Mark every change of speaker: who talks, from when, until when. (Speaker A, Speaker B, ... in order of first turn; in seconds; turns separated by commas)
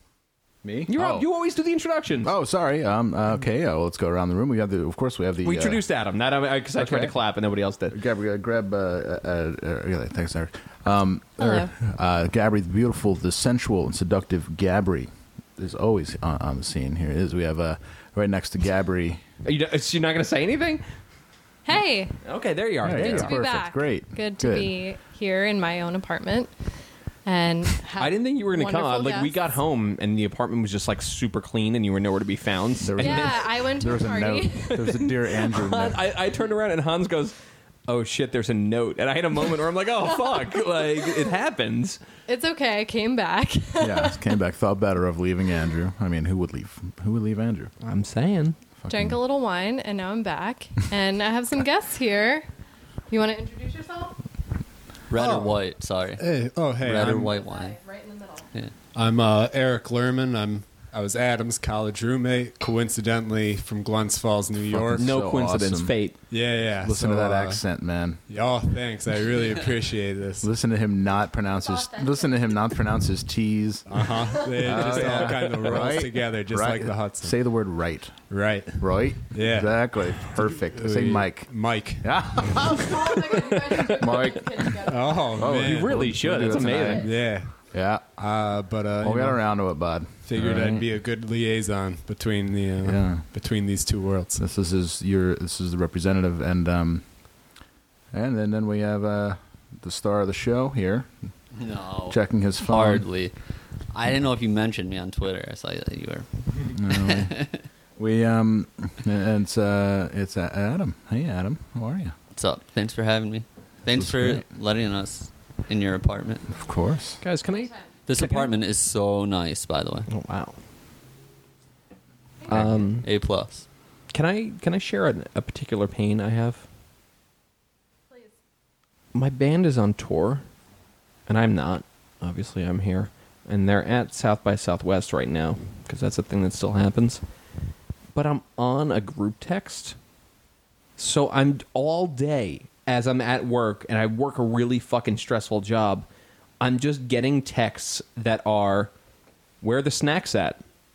Speaker A: 0.6-1.3, Speaker B: 0.9-2.3, Speaker A: 2.2-5.8, Speaker B: 5.4-8.0, Speaker A: 6.8-7.1, Speaker A: 7.9-19.2, Speaker C: 11.4-11.7, Speaker B: 19.4-20.8, Speaker C: 21.6-22.2, Speaker B: 22.2-23.4, Speaker A: 22.8-24.7, Speaker C: 22.9-26.5, Speaker C: 27.2-29.5, Speaker B: 28.0-33.7, Speaker A: 32.8-36.0, Speaker C: 33.0-34.8, Speaker B: 34.6-37.3, Speaker B: 37.9-42.0, Speaker C: 42.3-44.3, Speaker A: 43.8-47.7, Speaker B: 47.8-48.6, Speaker A: 48.8-49.2, Speaker C: 48.9-52.5, Speaker C: 53.1-54.2, Speaker D: 55.1-57.8, Speaker E: 55.1-55.6, Speaker E: 56.2-57.3, Speaker C: 57.3-58.5, Speaker E: 58.9-65.0, Speaker A: 64.7-66.0, Speaker B: 65.0-66.1, Speaker E: 66.3-67.6, Speaker A: 66.8-68.2, Speaker E: 68.3-70.5, Speaker A: 70.4-87.1, Speaker C: 71.5-72.7, Speaker E: 73.9-77.4, Speaker C: 74.3-74.6, Speaker E: 78.3-82.1, Speaker C: 82.8-85.3, Speaker E: 84.9-86.4, Speaker B: 85.4-87.1, Speaker C: 86.6-87.1, Speaker E: 87.0-87.6, Speaker A: 87.7-88.1, Speaker E: 88.2-89.4, Speaker A: 89.0-90.9, Speaker E: 90.2-94.4, Speaker A: 92.8-93.2, Speaker A: 94.4-97.0, Speaker A: 98.1-101.1, Speaker D: 101.5-103.3, Speaker A: 102.1-103.0, Speaker D: 103.9-107.6, Speaker A: 106.7-107.4, Speaker A: 108.0-112.1, Speaker D: 112.3-116.5, Speaker A: 113.9-114.5, Speaker A: 116.5-117.2, Speaker B: 117.2-118.5, Speaker D: 118.1-120.1, Speaker B: 120.1-120.5, Speaker C: 122.4-122.7, Speaker B: 122.5-123.0, Speaker D: 123.0-123.7, Speaker B: 124.1-126.6, Speaker C: 128.1-128.3, Speaker B: 129.1-130.4, Speaker B: 131.3-137.2, Speaker B: 138.1-139.9, Speaker B: 141.0-146.1, Speaker B: 146.6-148.9, Speaker B: 149.6-150.6